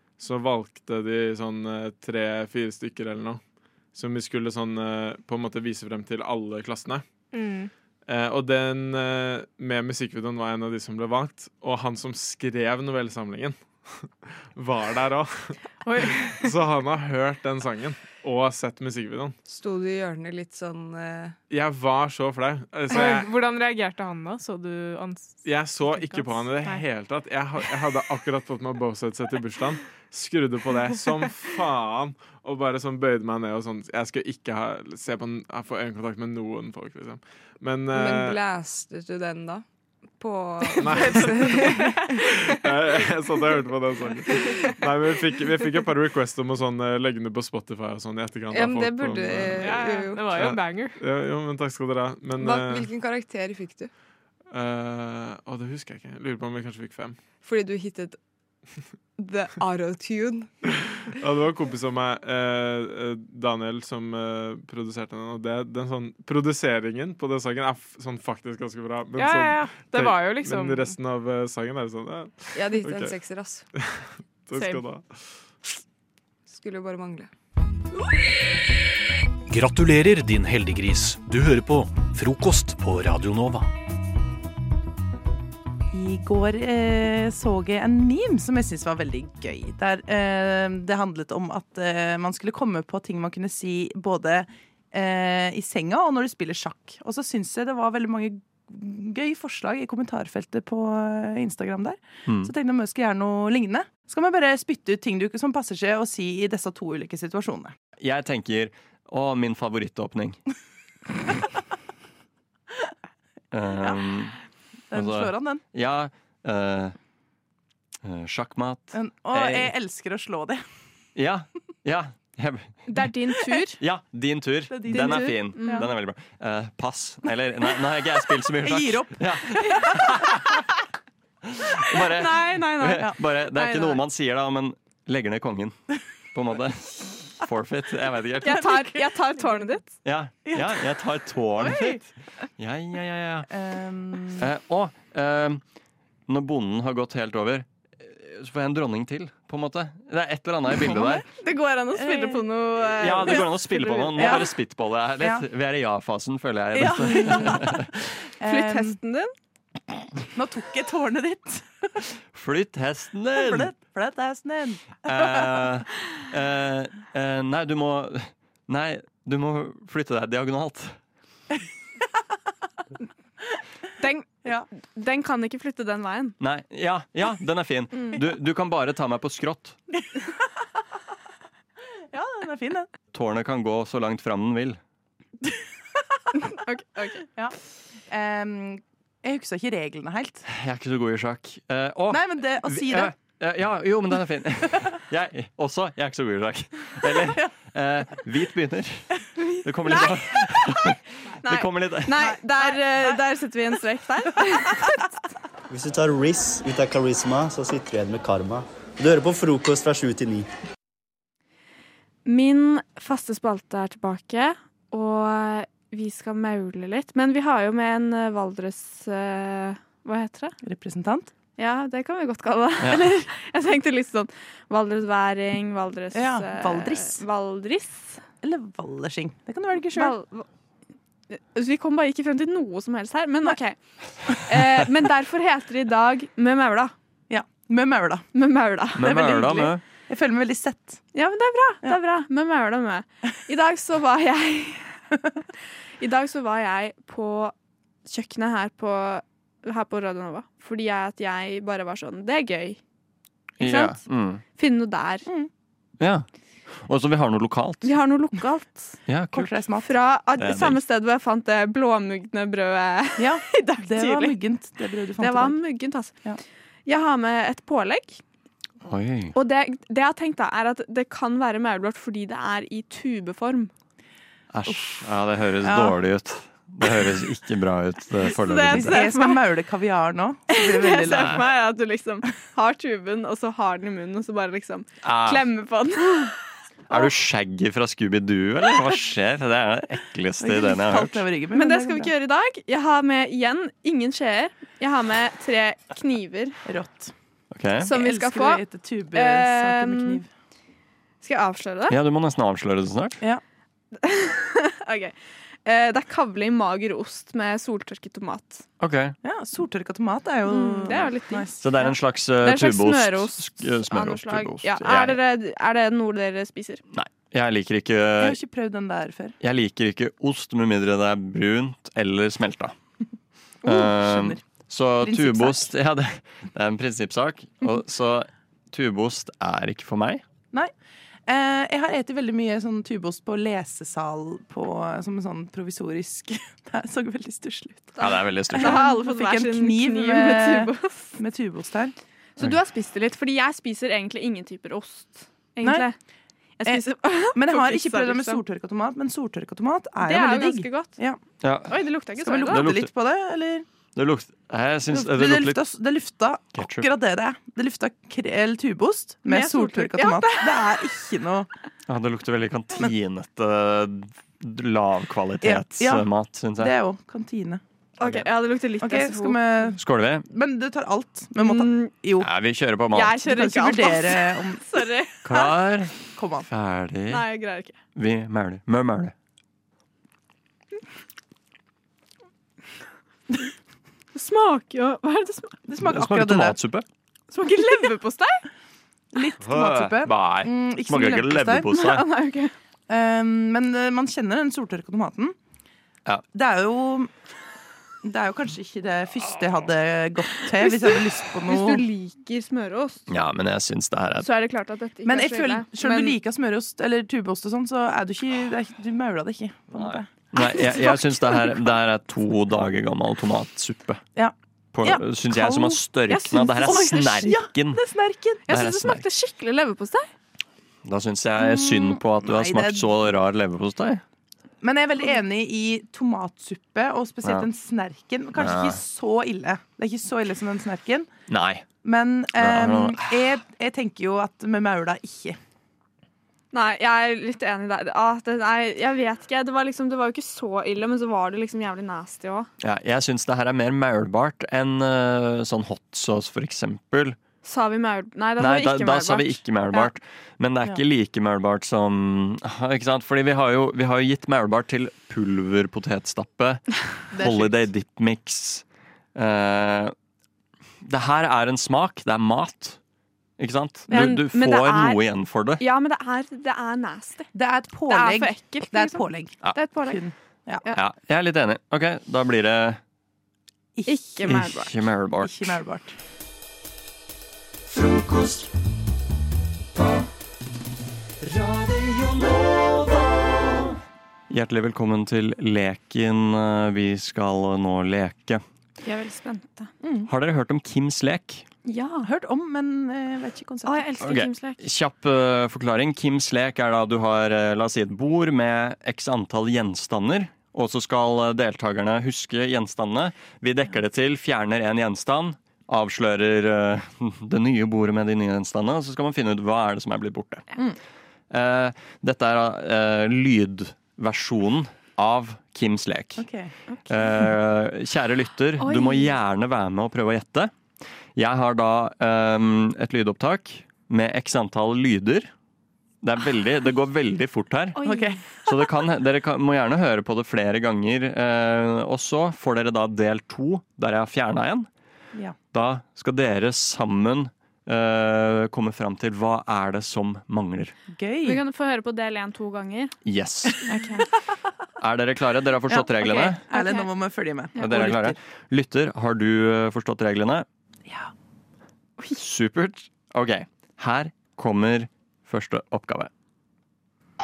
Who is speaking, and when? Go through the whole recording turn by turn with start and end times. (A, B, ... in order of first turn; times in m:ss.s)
0:00.2-0:03.4 A
0:03.9-0:07.0 A
0:07.3-0:07.7 B
0:08.1-0:19.3 A
0:15.8-0:16.5 B
0:19.5-0:21.3 C
0:21.5-0:23.3 A
0:22.9-0:26.8 B
0:25.4-0:38.4 A
0:37.9-0:39.6 C
0:40.2-0:42.0 C
0:40.8-0:49.8 A
0:41.0-0:42.2 B
0:44.4-0:44.7 B
0:48.5-0:50.3 C
0:49.6-0:51.0 B
0:50.3-0:52.9 A
0:52.4-0:53.9 C
0:54.5-0:57.2 A
0:57.4-0:58.2 C
0:59.2-1:00.5 C
1:01.1-1:13.1 A
1:09.2-1:10.9 B
1:12.5-1:13.6 C
1:13.8-1:15.0 A
1:14.6-1:14.8 B
1:16.5-1:17.3 C
1:19.5-1:23.7 D
1:25.9-1:47.7 E
1:42.2-1:42.5 F
1:48.0-1:50.4 F
1:53.5-1:54.4 F
1:54.9-1:55.6 E
1:54.9-1:56.9 F
1:58.0-1:59.7 F
1:58.9-2:00.6 E
2:01.2-2:02.8 F
2:02.9-2:03.8 G
2:03.8-2:10.6 F
2:04.7-2:05.9 E
2:04.9-2:05.9 G
2:08.6-2:10.3 E
2:11.5-2:15.8 F
2:12.1-2:14.0 G
2:16.3-2:18.9 F
2:18.4-2:19.9 G
2:18.4-2:19.7 E
2:20.0-2:23.5 F
2:20.5-2:20.8 E
2:21.6-2:22.0 E
2:23.5-2:24.5 E
2:24.4-2:25.6 F
2:26.3-2:31.2 F
2:31.3-2:34.4 G
2:31.9-2:32.5 E
2:32.9-2:37.9 F
2:33.2-2:34.5 E
2:35.2-2:35.4 E
2:36.8-2:37.8 E
2:36.9-2:37.6 G
2:38.4-2:39.0 E
2:38.4-2:39.3 G
2:40.3-2:41.9 E
2:42.3-2:43.7 F
2:43.3-2:45.5 E
2:45.0-2:51.0 F
2:54.0-2:56.4 G
2:56.4-2:59.8 F
3:02.1-3:02.9 E
3:03.1-3:04.8 F
3:06.4-3:07.2 G
3:08.1-3:10.4 E
3:10.4-3:22.3 F
3:12.1-3:13.1 E
3:19.4-3:20.4 G
3:21.4-3:25.0 G
3:22.1-3:23.5 E
3:24.5-3:25.0 E
3:25.7-3:30.5 H
3:32.2-3:40.6 G
3:40.6-3:41.3 E
3:41.6-3:48.2 G
3:42.8-3:43.1 F
3:46.1-3:47.2 E
3:48.4-3:50.2 E
3:50.0-3:50.5 G
3:51.3-3:53.8 G
3:54.3-3:56.9 G
3:57.3-3:58.2 E
3:58.3-3:59.7 G
3:59.0-3:59.8 F
3:59.1-4:01.0 E
4:01.1-4:05.0 G
4:06.0-4:07.5 G
4:08.0-4:12.8 G
4:13.6-4:14.0 G
4:13.6-4:14.4 F
4:14.5-4:15.3 G
4:16.0-4:17.9 F
4:17.8-4:19.0 G
4:19.1-4:19.6 F
4:19.3-4:20.0 E
4:19.8-4:24.4 G
4:20.4-4:20.8 F
4:23.2-4:25.6 E
4:25.2-4:26.1 G
4:26.9-4:28.2 G
4:28.8-4:29.3 F
4:29.3-4:33.7 G
4:34.5-4:39.0 F
4:35.6-4:35.9 E
4:38.3-4:39.5 G
4:38.6-4:41.5 E
4:40.5-4:46.3 G
4:41.1-4:41.4 F
4:45.0-4:45.5 F
4:46.9-4:51.2 F
4:50.4-4:52.1 E
4:51.5-4:56.6 G
4:56.6-4:57.1 E
4:57.5-4:57.9 F
4:57.8-5:00.2 G
4:57.8-5:00.3 E
5:01.2-5:02.0 G
5:01.9-5:03.2 F
5:04.0-5:08.6 G
5:08.8-5:09.1 F
5:09.2-5:11.8 E
5:10.4-5:16.8 G
5:11.6-5:15.2 F
5:16.9-5:18.4 F
5:18.2-5:19.4 E
5:19.4-5:22.8 F
5:23.6-5:24.4 E
5:23.6-5:30.2 F
5:25.0-5:25.7 E
5:31.3-5:41.9 E
5:38.0-5:38.8 F
5:38.0-5:41.2 G
5:42.4-5:46.0 G
5:45.6-5:45.9 E
5:46.6-5:48.4 G
5:46.6-5:51.2 E
5:50.0-5:51.0 G
5:51.4-5:51.8 F
5:51.7-5:52.8 G
5:52.2-5:53.6 E
5:52.5-5:52.9 F
5:54.0-5:55.6 F
5:54.9-6:01.5 E
5:56.6-5:56.9 F
5:59.2-6:00.9 G
6:01.9-6:06.7 F
6:05.4-6:07.6 E
6:08.0-6:09.7 G
6:08.0-6:08.3 F
6:08.8-6:12.3 E
6:09.8-6:10.2 F
6:11.4-6:11.9 G
6:12.2-6:13.2 F
6:12.9-6:15.4 G
6:13.2-6:15.0 E
6:15.2-6:17.3 F
6:16.2-6:16.5 E
6:17.1-6:17.8 G
6:17.9-6:19.1 F
6:24.1-6:25.6 G
6:25.7-6:26.6 E
6:25.8-6:26.8 F
6:27.3-6:28.4 G
6:29.1-6:31.7 E
6:29.4-6:32.1 F
6:31.7-6:32.5 G
6:32.9-6:35.4 E
6:36.3-6:37.1 E
6:38.0-6:41.9 E
6:40.6-6:43.1 G
6:43.1-6:44.3 F
6:44.2-6:46.2 G
6:45.0-6:51.5 E
6:49.8-6:54.0 F
6:54.2-6:58.4 E
6:54.7-6:57.8 F
6:56.1-6:57.0 G
6:58.4-7:00.1 G
6:58.5-6:59.1 F
7:00.8-7:04.0 F
7:01.4-7:03.1 E
7:04.6-7:11.1 E
7:08.4-7:08.8 F
7:11.3-7:11.6 F
7:11.8-7:15.4 E
7:12.4-7:13.1 F
7:16.5-7:22.5 G
7:22.6-7:27.2 F
7:27.4-7:29.9 G
7:28.4-7:38.6 F
7:37.2-7:37.6 E
7:39.1-7:39.9 F
7:40.8-7:42.8 F
7:43.4-7:45.6 F
7:43.9-7:44.2 E
7:43.9-7:47.3 G
7:47.3-7:50.6 E
7:47.9-7:50.0 G
7:50.7-7:52.8 F
7:53.8-7:54.4 E
7:53.9-7:54.8 G
7:54.2-7:55.6 F
7:55.2-7:55.9 E
7:57.7-7:58.5 F
8:01.3-8:03.7 F
8:04.3-8:08.4 F
8:08.8-8:09.7 G
8:09.8-8:10.1 E
8:10.1-8:11.4 F
8:11.6-8:12.1 G
8:12.0-8:13.9 E
8:13.6-8:14.6 G
8:14.0-8:30.4 F
8:31.3-8:36.2 F
8:36.2-8:36.5 E
8:36.7-8:37.0 G
8:36.9-8:40.5 F
8:38.6-8:39.2 G
8:41.2-8:45.3 F
8:46.0-8:47.8 F
8:47.8-8:48.7 G
8:47.8-8:48.2 E
8:48.4-8:54.7 F
8:55.5-9:00.7 F
9:00.9-9:01.4 E
9:01.2-9:02.9 G
9:03.0-9:03.6 F
9:03.7-9:04.1 G
9:03.7-9:04.0 E
9:04.8-9:06.4 F
9:05.7-9:08.2 E
9:06.0-9:06.9 G
9:07.6-9:10.4 F
9:12.2-9:16.1 F